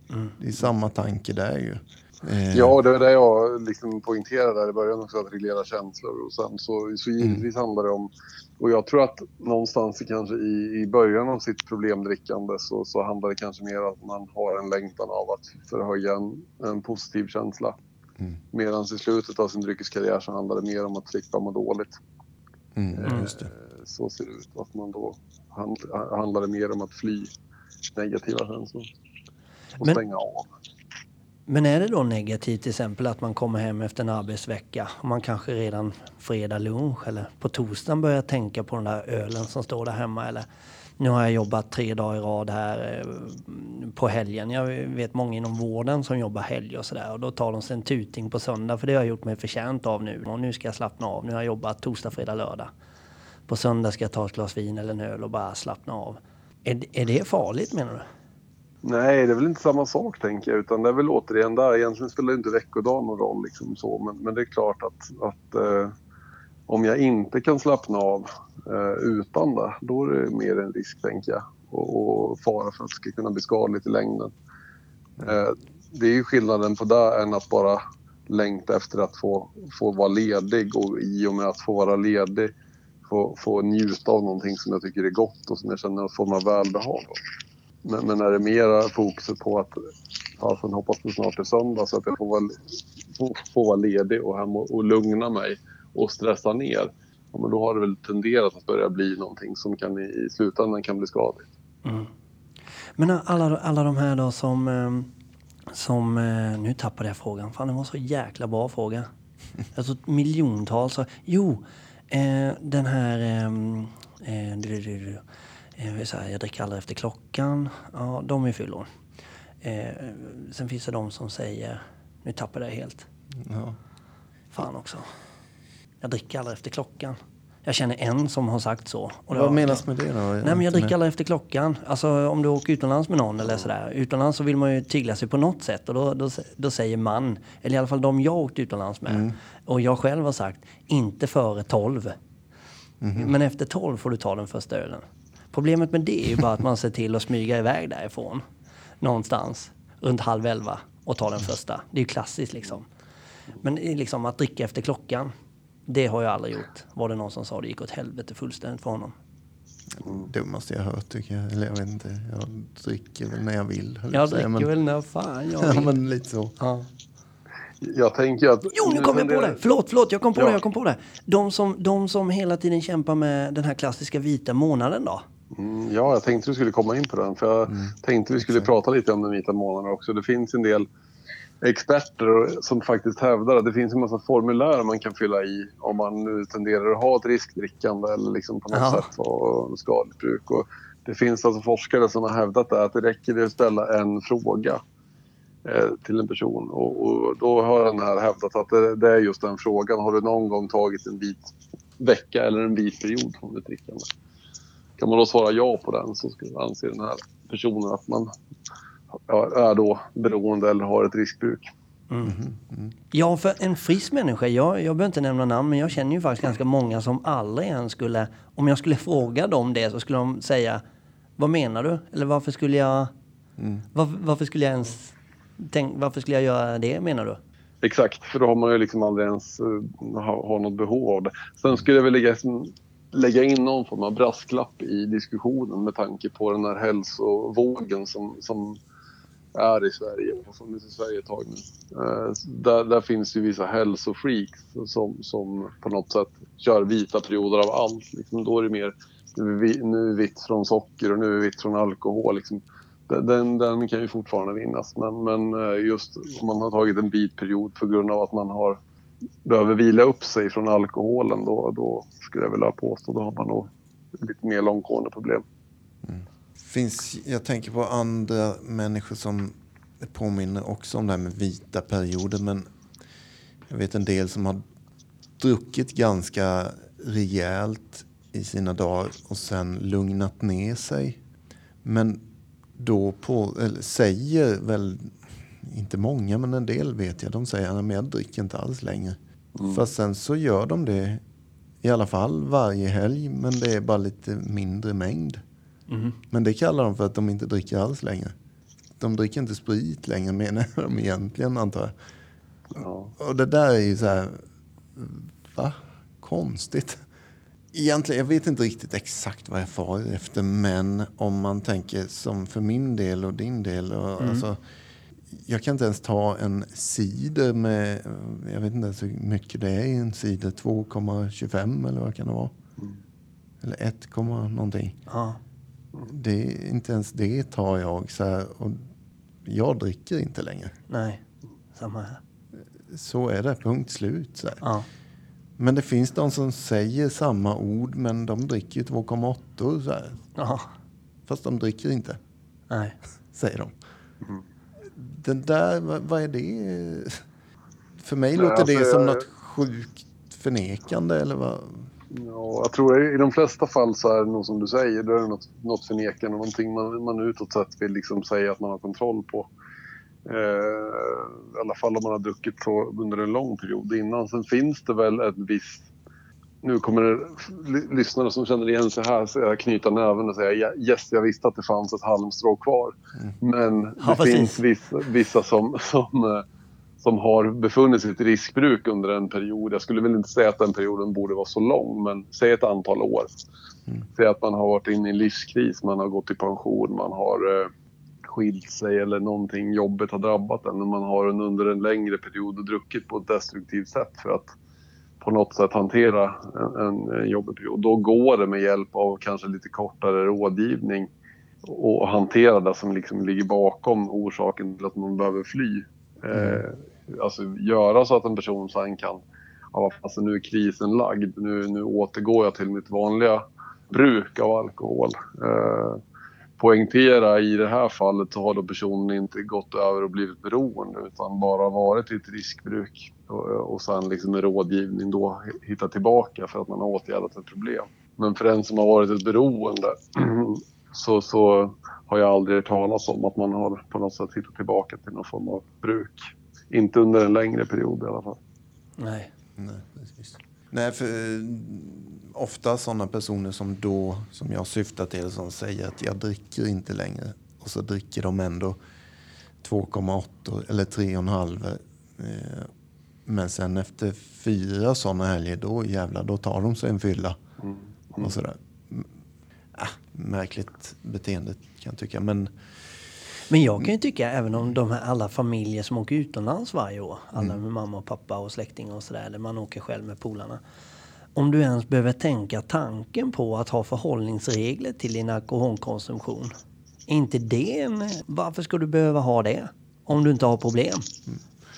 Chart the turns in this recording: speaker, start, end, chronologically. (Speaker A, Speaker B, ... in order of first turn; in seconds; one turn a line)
Speaker A: 0.4-2.8
Speaker B: 2.5-17.8
Speaker B: 18.5-21.9
Speaker A: 22.8-23.5
Speaker B: 22.9-27.3
Speaker B: 27.9-28.9
Speaker B: 29.8-30.5
Speaker C: 31.5-40.5
Speaker C: 41.0-52.7
Speaker C: 53.5-58.0
Speaker B: 58.8-65.9
Speaker B: 66.7-74.3
Speaker B: 75.2-82.5
Speaker B: 83.0-87.2
Speaker B: 87.8-89.8
Speaker B: 90.4-101.5
Speaker C: 101.8-102.1
Speaker C: 103.0-105.1
Speaker C: 105.7-109.1
Speaker C: 109.7-115.2
Speaker C: 115.8-118.9
Speaker C: 119.6-123.1
Speaker A: 123.4-123.8
Speaker C: 124.5-125.0
Speaker C: 126.0-129.8
Speaker A: 129.3-130.9
Speaker C: 130.4-142.2
Speaker A: 143.0-143.3
Speaker C: 143.1-148.4
Speaker C: 149.0-152.9
Speaker C: 153.6-155.3
Speaker C: 155.9-159.1
Speaker A: 159.9-164.7
Speaker C: 164.1-165.9
Speaker A: 165.6-166.6
Speaker C: 166.6-166.9
Speaker B: 167.8-169.6
Speaker C: 168.7-175.2
Speaker B: 175.5-180.9
Speaker A: 177.7-178.7
Speaker B: 181.6-194.8
Speaker C: 188.7-189.1
Speaker B: 195.6-204.1
Speaker B: 205.0-208.3
Speaker B: 209.3-211.7
Speaker C: 212.1-212.3
Speaker A: 212.2-212.9
Speaker C: 213.1-220.8
Speaker C: 221.4-223.1
Speaker A: 223.6-223.8
Speaker C: 223.9-227.4
Speaker B: 227.8-238.8
Speaker B: 239.5-258.8
Speaker B: 259.4-265.4
Speaker A: 266.0-272.6
Speaker A: 273.7-274.6
Speaker A: 275.4-281.2
Speaker A: 281.8-282.2
Speaker A: 282.8-291.2
Speaker B: 289.6-289.8
Speaker A: 291.8-295.4
Speaker C: 295.9-296.2
Speaker A: 296.3-298.3
Speaker A: 299.0-301.9
Speaker B: 302.8-303.1
Speaker A: 303.2-304.4
Speaker A: 304.9-307.0
Speaker A: 307.7-314.6
Speaker C: 314.2-314.4
Speaker A: 315.3-322.5
Speaker A: 323.6-325.0
Speaker C: 325.1-325.4
Speaker A: 326.0-328.8
Speaker A: 329.4-330.7
Speaker C: 330.9-331.2
Speaker C: 331.7-332.2
Speaker A: 332.9-334.6
Speaker A: 335.6-340.2
Speaker C: 340.4-340.7
Speaker A: 341.3-342.2
Speaker C: 342.7-342.9
Speaker A: 343.3-343.8
Speaker A: 344.9-347.2
Speaker A: 348.0-351.9
Speaker B: 348.4-349.2
Speaker B: 352.1-359.5
Speaker B: 360.2-365.9
Speaker B: 366.6-376.4
Speaker C: 374.0-374.6
Speaker B: 377.0-383.3
Speaker B: 384.1-387.7
Speaker B: 388.2-394.5
Speaker B: 395.2-401.1
Speaker B: 401.6-409.2
Speaker A: 406.3-406.6
Speaker B: 409.7-416.0
Speaker B: 416.6-438.4
Speaker C: 439.0-439.3
Speaker A: 439.6-448.8
Speaker A: 449.6-452.7
Speaker A: 453.2-457.4
Speaker B: 457.6-458.3
Speaker A: 458.2-459.1
Speaker A: 459.7-462.5
Speaker C: 463.5-470.6
Speaker C: 471.4-476.5
Speaker C: 477.1-481.1